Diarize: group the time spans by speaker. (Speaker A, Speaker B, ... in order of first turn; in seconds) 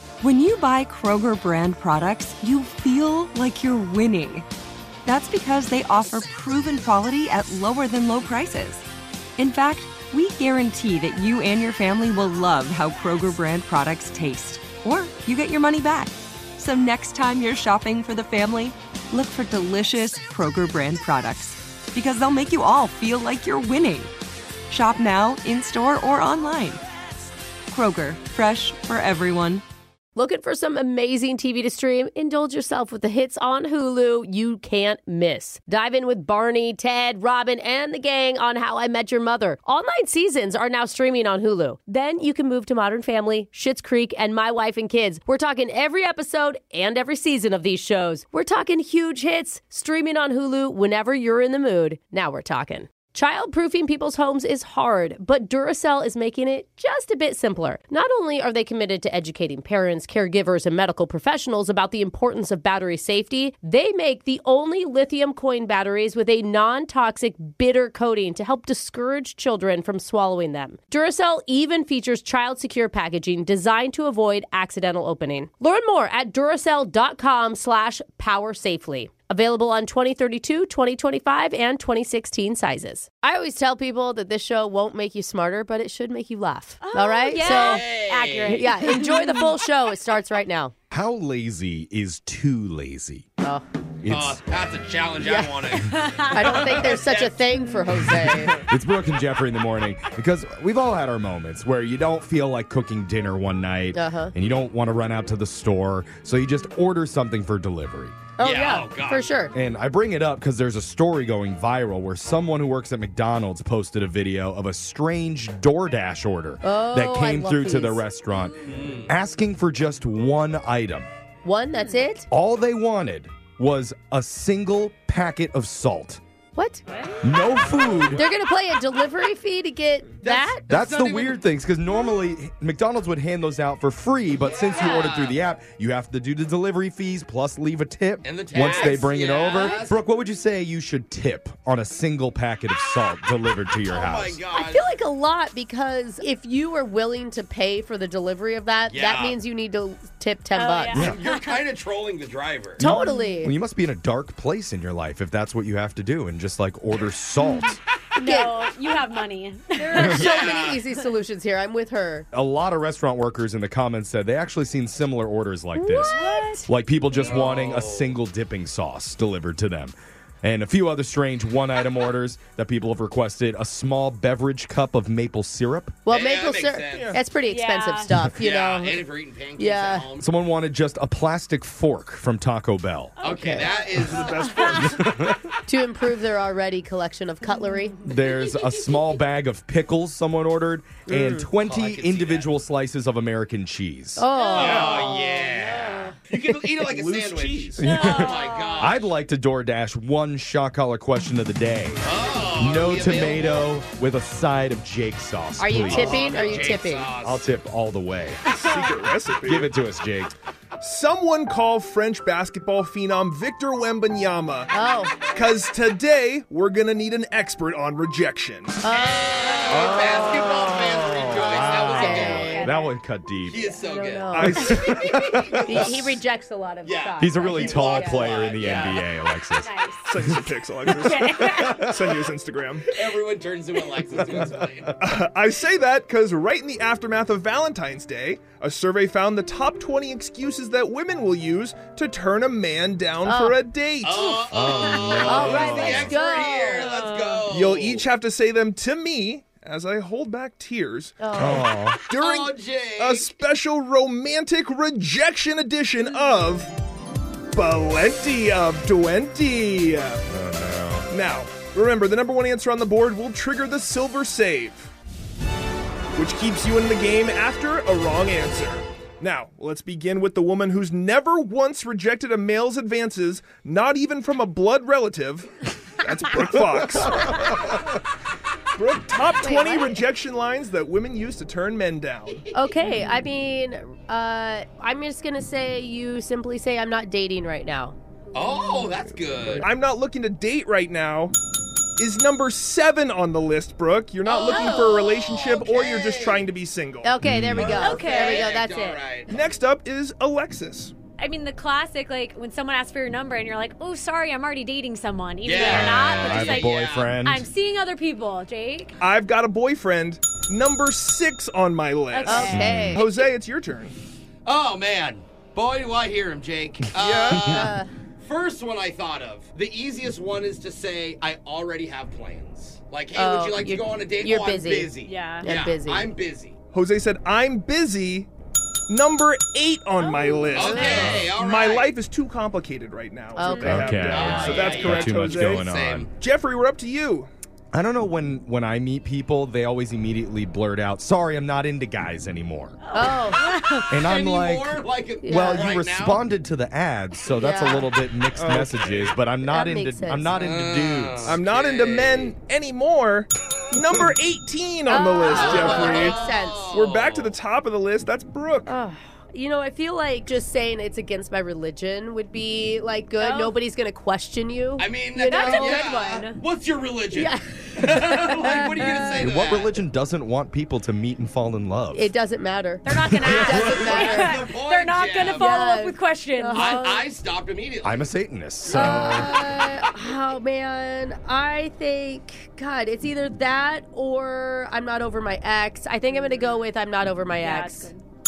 Speaker A: 0.2-4.5, 5.1-8.8, 9.4-24.1, 24.7-26.8, 27.7-29.6
Speaker B: 30.2-90.7, 95.2-98.6, 103.9-104.3, 108.4-109.5, 116.6-118.0, 121.4-122.3, 126.5-126.8, 128.2-130.7, 144.5-151.1, 152.8-153.5, 158.2-158.6, 159.8-162.3, 165.8-166.7, 176.1-180.1, 183.2-183.7, 185.7-188.0, 191.1-191.5, 194.2-195.5, 205.6-207.1, 214.7-215.2, 218.8-219.3, 219.9-220.3, 221.4-222.7, 223.8-224.7, 225.6-228.9, 243.3-243.6, 245.2-247.1, 251.2-251.7, 279.4-280.0, 282.5-288.0, 294.3-295.0, 297.0-299.0, 312.3-313.1, 317.3-317.9, 323.1-326.1, 330.6-331.1, 333.4-334.5, 342.9-343.4, 345.2-345.8, 347.4-347.9, 349.5-350.3, 354.9-356.8, 358.7-366.2, 367.1-369.2, 371.9-374.4, 375.4-377.0, 378.7-387.9
Speaker C: 86.8-89.6, 95.8-96.8, 126.9-128.0, 134.7-135.1, 150.5-151.6, 158.2-160.6, 166.0-167.6, 177.4-178.1, 183.2-184.8, 187.6-189.0, 194.3-196.2, 197.8-198.9, 208.6-208.9, 219.4-219.8, 221.3-222.9, 227.9-228.9, 229.6-230.1, 230.9-231.9, 244.8-245.1, 246.2-247.4, 294.3-295.3, 297.8-298.6, 301.2-308.9, 312.1-313.3, 325.0-325.5, 330.0-331.0, 333.4-333.9, 342.8-343.9, 363.2-363.6, 365.3-366.4, 372.8-377.0, 386.2-386.6, 387.4-388.0
Speaker D: 87.3-88.6, 94.1-97.4, 108.4-109.4, 118.7-119.1, 130.2-131.4, 134.4-135.4, 138.2-140.0, 143.8-144.8, 148.9-149.4, 150.9-152.9, 160.1-160.8, 167.2-168.1, 176.1-177.2, 178.3-180.3, 183.2-185.0, 191.5-192.5, 194.5-199.1, 202.0-203.7, 205.9-207.4, 218.9-222.5, 223.5-226.2, 226.8-229.0, 232.9-234.9, 244.0-248.1, 252.1-253.4, 288.3-289.7, 295.1-296.5, 297.6-299.4, 305.4-307.1, 314.4-326.6, 330.5-331.9, 334.1-336.1, 344.0-346.3, 350.3-352.3, 355.3-357.4, 364.8-369.7, 373.3-375.5, 376.5-378.1
Speaker E: 90.9-93.3, 94.0-94.5, 98.7-108.2, 109.5-121.1, 122.3-126.2, 127.2-128.3, 130.7-144.4, 152.8-157.8, 162.3-176.0, 180.2-183.2, 184.8-185.3, 188.1-194.3, 197.8-206.7, 207.2-208.4, 209.4-210.4, 219.7-223.7, 224.5-225.9, 227.2-230.4, 231.1-232.0, 234.2-234.7, 244.5-246.2, 251.4-252.0, 260.3-261.1, 276.8-277.3, 297.2-297.8, 305.6-307.4, 312.5-313.0, 330.9-331.3, 333.7-336.1, 337.7-342.8, 343.9-351.4, 369.2-372.1, 373.1-373.8, 377.8-379.4
Speaker F: 176.9-177.2, 184.1-185.0, 196.8-197.8, 208.5-209.7, 210.8-214.7, 215.3-218.9, 224.3-225.0, 230.1-232.9, 235.0-244.3, 247.5-251.3, 252.1-256.7, 257.5-260.2, 261.1-264.9, 266.2-277.5, 278.8-282.4, 289.6-291.3, 292.0-297.2, 299.3-300.9, 309.0-313.9, 317.0-317.4, 326.7-328.3, 328.9-337.3, 348.3-348.9, 351.3-358.7